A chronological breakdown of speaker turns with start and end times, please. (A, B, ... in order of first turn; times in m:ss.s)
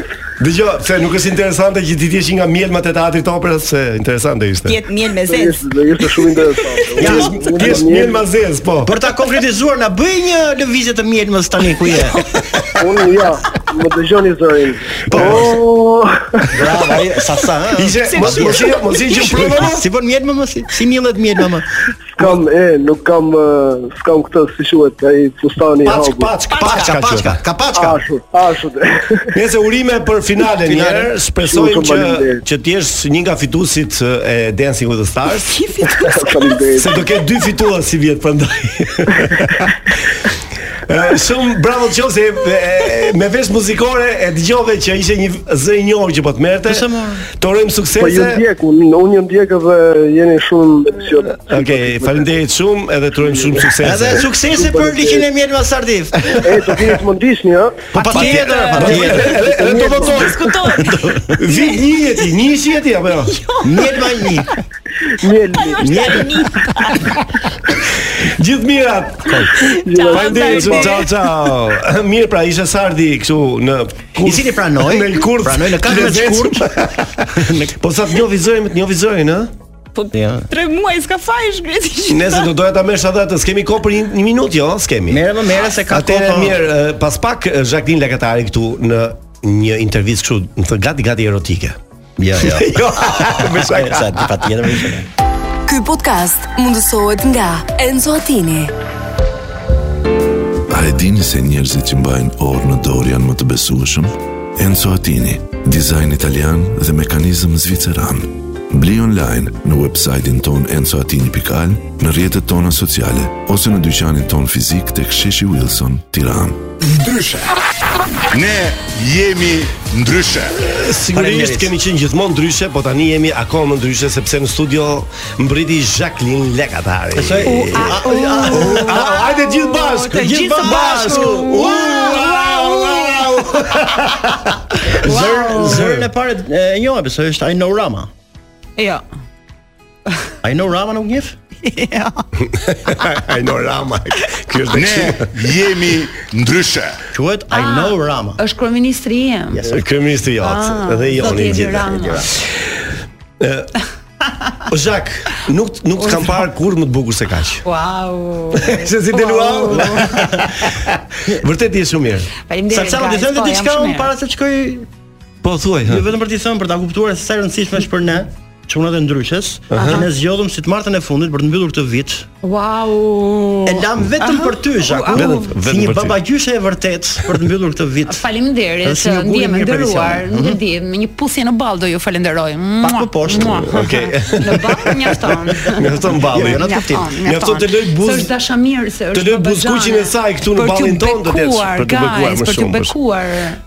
0:00.4-0:04.8 A
0:04.6-0:07.1 B
0:05.3-0:08.2 C
0:07.0-0:08.9 A
0:08.8-0:12.6 D
0:12.8-0:16.5 C
0:15.1-0:15.6 A
0:15.1-0:15.6 D
0:16.5-0:21.7 D
0:17.8-0:19.9 A
0:18.1-0:19.6 B
0:22.2-0:26.3 C
0:22.2-0:22.4 A
0:25.8-0:27.4 A
0:26.5-0:26.9 B
0:26.6-0:28.0 D
0:27.7-0:29.3 C
0:29.3-0:35.6 A
0:30.6-0:31.1 D
0:31.4-0:32.4 C
0:35.6-0:36.5 B
0:36.0-0:36.9 C
0:36.8-0:40.3 A
0:40.9-0:48.4 A
0:46.7-0:47.3 D
0:48.0-0:52.3 C
0:51.2-0:54.3 A
0:53.2-0:53.6 C
0:53.8-0:56.4 D
0:54.4-0:55.3 C
0:56.4-0:56.9 A
0:56.4-0:57.9 C
0:57.9-1:00.0 D
0:58.0-1:00.4 A
0:58.1-0:59.2 B
0:59.4-1:00.1 C
1:00.0-1:00.9 B
1:00.7-1:01.4 D
1:01.4-1:03.4 A
1:03.6-1:04.5 D
1:05.2-1:05.8 C
1:05.6-1:07.2 B
1:05.8-1:06.4 D
1:08.2-1:09.5 A
1:09.3-1:09.5 D
1:09.6-1:11.1 B
1:09.8-1:10.9 C
1:10.1-1:19.5 A
1:14.2-1:17.8 D
1:20.0-1:22.5 B
1:20.1-1:20.5 D
1:22.1-1:25.2 A
1:25.1-1:26.6 D
1:25.9-1:31.8 A
1:32.2-1:35.1 D
1:32.4-1:34.7 A
1:35.7-1:38.7 E
1:40.7-1:56.7 F
1:56.8-1:57.5 G
1:58.3-2:00.7 G
2:00.6-2:14.5 A
2:01.1-2:01.7 D
2:07.2-2:09.2 D
2:07.4-2:13.7 H
2:10.1-2:12.2 D
2:14.8-2:18.1 D
2:15.0-2:16.0 H
2:15.7-2:16.1 A
2:18.8-2:19.0 H
2:20.4-2:21.4 D
2:21.6-2:22.2 H
2:22.4-2:25.4 A
2:24.7-2:27.0 G
2:27.1-2:28.4 D
2:27.5-2:29.6 H
2:29.5-2:29.8 D
2:29.6-2:32.8 A
2:30.4-2:32.3 H
2:33.4-2:33.7 A
2:34.7-2:37.6 A
2:36.0-2:36.4 H
2:37.6-2:40.3 H
2:38.5-2:42.3 A
2:40.0-2:40.6 D
2:42.4-2:44.2 H
2:42.7-2:44.9 D
2:45.4-2:46.1 A
2:45.9-2:52.3 D
2:49.7-2:50.1 A
2:49.8-2:50.0 H
2:52.4-2:55.5 H
2:53.6-2:58.3 D
2:55.1-2:56.2 A
2:58.0-3:13.6 H
2:58.8-3:00.6 D
3:02.8-3:03.8 D
3:03.5-3:08.3 A
3:06.0-3:07.1 D
3:09.1-3:12.9 A